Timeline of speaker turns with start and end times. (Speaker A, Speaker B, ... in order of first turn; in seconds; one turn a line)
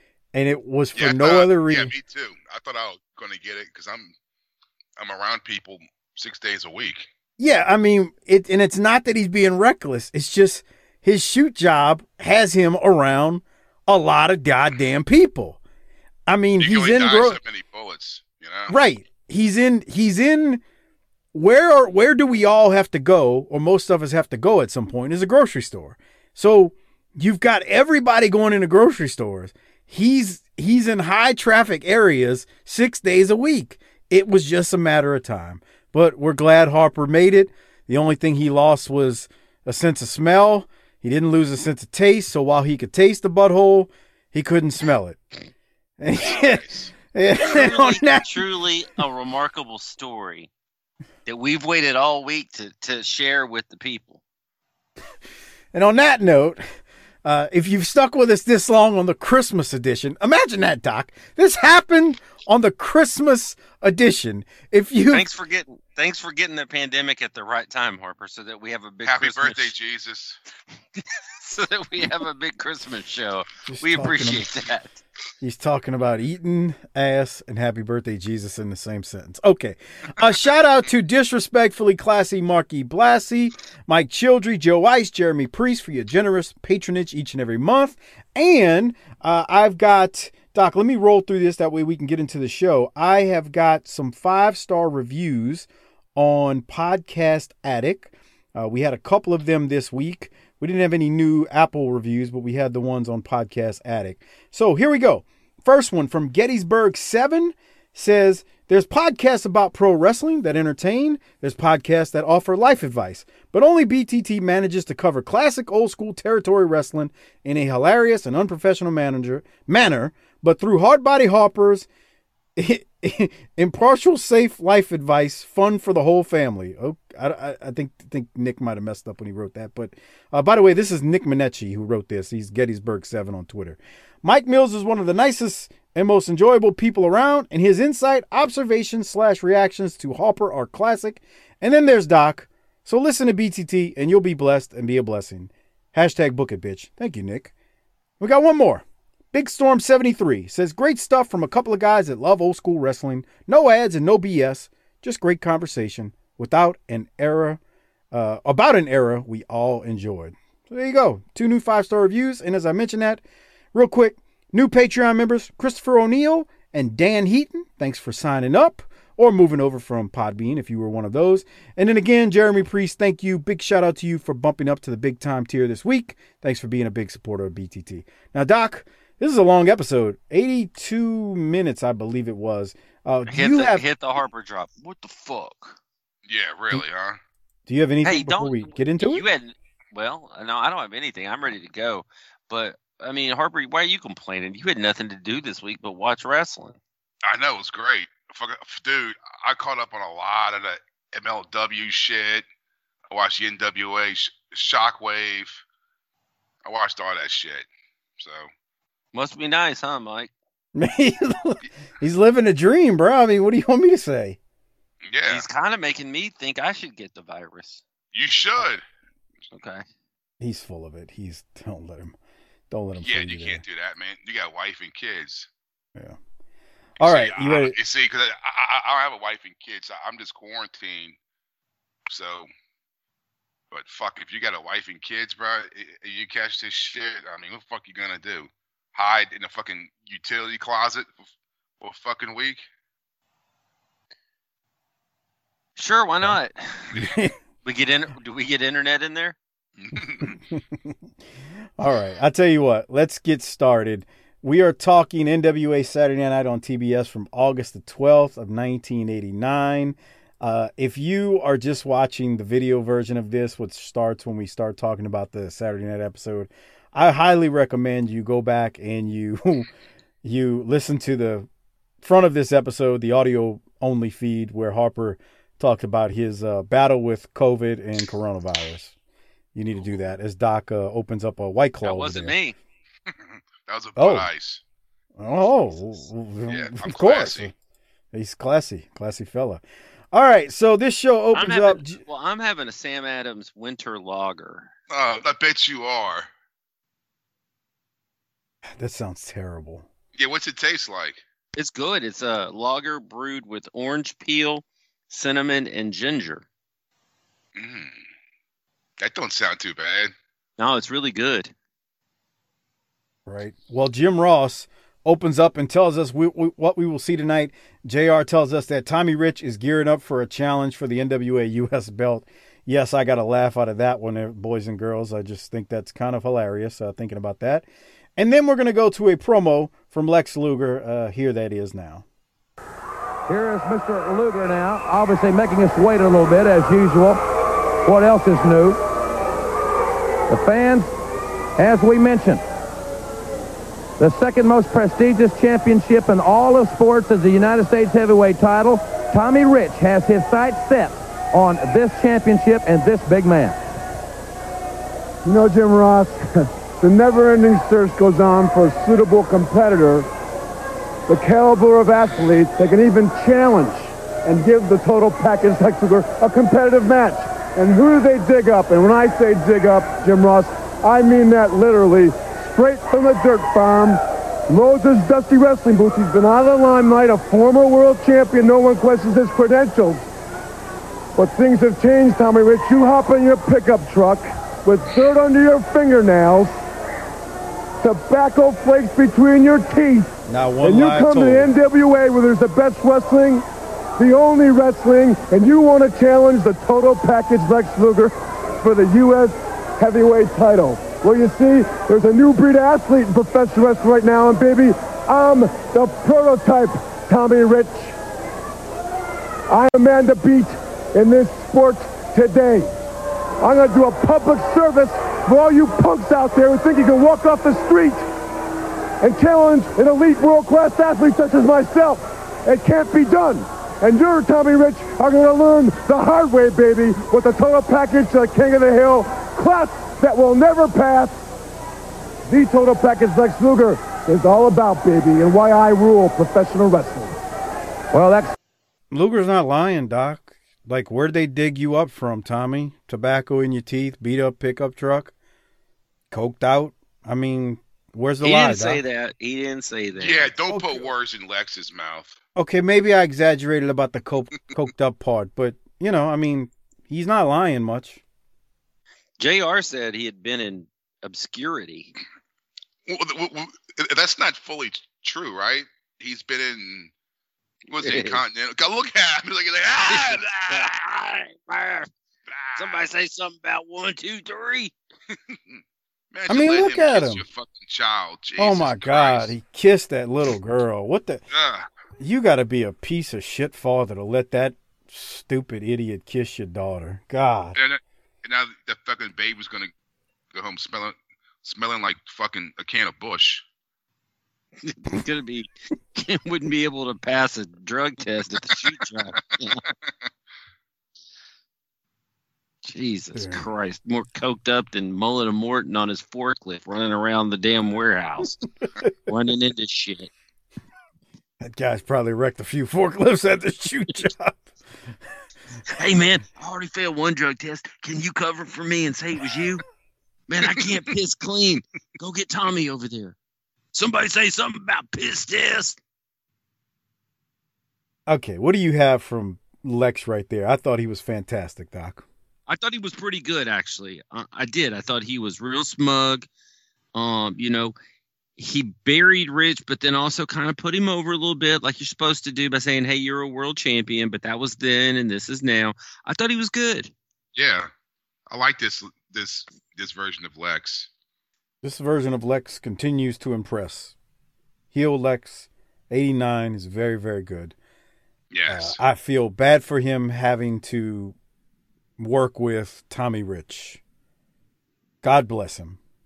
Speaker A: 0.3-1.9
Speaker B: 1.0-4.2
Speaker B: 5.0-7.1
Speaker A: 7.4-15.6
Speaker A: 16.3-17.4
Speaker B: 16.6-18.8
Speaker A: 18.7-20.6
Speaker A: 21.3-45.2
Speaker A: 46.0-48.3
Speaker B: 46.2-46.9
Speaker C: 47.4-50.5
Speaker C: 51.3-54.2
Speaker A: 55.7-56.6
Speaker A: 57.2-65.3
Speaker C: 65.1-69.7
Speaker B: 69.0-70.4
Speaker C: 71.0-75.0
Speaker A: 73.7-74.5
Speaker A: 75.4-121.9
Speaker A: 122.6-147.5
Speaker A: 148.2-157.6
Speaker A: 158.1-163.2
Speaker A: 163.7-183.8
Speaker C: 183.3-185.8
Speaker B: 186.3-187.2
Speaker A: 187.7-189.2
Speaker C: 188.0-196.8
Speaker B: 197.3-202.5
Speaker B: 203.1-205.6
Speaker B: 206.7-207.7
Speaker B: 208.2-208.5
Speaker C: 209.1-210.3
Speaker A: 210.8-214.4
Speaker B: 215.1-215.4
Speaker C: 215.2-217.8
Speaker B: 218.1-218.8
Speaker C: 219.5-219.8
Speaker A: 220.4-222.2
Speaker A: 222.7-223.6
Speaker B: 223.0-225.5
Speaker A: 227.0-227.8
Speaker B: 227.0-231.2
Speaker B: 232.1-232.5
Speaker B: 233.7-241.2
Speaker B: 241.8-242.6
Speaker C: 245.8-247.0
Speaker A: 246.9-247.3
Speaker C: 247.6-249.4
Speaker B: 249.8-250.4
Speaker A: 251.8-269.7
Speaker A: 270.2-271.5
Speaker A: 272.0-278.9
Speaker A: 279.6-282.4
Speaker C: 281.8-282.6
Speaker B: 283.6-284.6
Speaker A: 284.0-284.3
Speaker A: 285.2-287.5
Speaker B: 286.5-287.5
Speaker A: 288.1-292.0
Speaker C: 291.3-294.7
Speaker B: 294.9-296.3
Speaker A: 298.8-299.9
Speaker B: 300.2-301.2
Speaker C: 301.6-306.5
Speaker B: 307.6-308.0
Speaker B: 309.0-310.1
Speaker C: 310.6-311.5
Speaker A: 313.3-332.1
Speaker D: 333.3-337.2
Speaker D: 337.9-338.8
Speaker D: 340.3-340.9
Speaker D: 341.6-342.4
Speaker D: 344.0-353.6
Speaker E: 355.2-360.1
Speaker E: 361.1-380.1
Speaker E: 381.2-386.5
Speaker E: 387.8-393.4
Speaker A: 390.3-391.5
Speaker E: 394.0-407.9
Speaker E: 409.5-412.7
Speaker E: 413.4-418.1
Speaker E: 419.0-431.2
Speaker E: 432.3-437.2
Speaker D: 437.9-438.3
Speaker A: 438.9-445.1
Speaker A: 446.1-448.8
Speaker C: 448.2-450.3
Speaker B: 450.0-452.2
Speaker A: 450.5-450.9
Speaker A: 452.4-458.0
Speaker C: 459.2-461.9
Speaker B: 462.9-466.9
Speaker B: 467.7-470.7
Speaker C: 467.8-468.2
Speaker C: 469.8-471.9
Speaker B: 472.3-472.8
Speaker C: 472.6-474.7
Speaker B: 476.1-479.3
Speaker A: 476.3-477.2
Speaker A: 478.4-481.2
Speaker B: 481.3-481.7
Speaker A: 482.0-487.6
Speaker B: 487.6-489.7
Speaker B: 490.3-493.4
Speaker C: 494.6-499.6
Speaker C: 502.6-508.4
Speaker A: 503.1-503.5
Speaker C: 509.1-510.1
Speaker A: 511.4-514.5
Speaker C: 515.7-519.6
Speaker C: 520.3-523.2
Speaker C: 523.7-525.8
Speaker A: 528.1-532.1
Speaker C: 532.5-536.3
Speaker C: 537.0-537.8
Speaker C: 538.4-546.9
Speaker B: 547.4-547.7
Speaker B: 548.3-550.9
Speaker A: 551.6-554.0
Speaker A: 554.7-557.6
Speaker B: 558.3-558.8
Speaker A: 558.5-561.2
Speaker A: 562.0-563.8
Speaker A: 565.0-565.8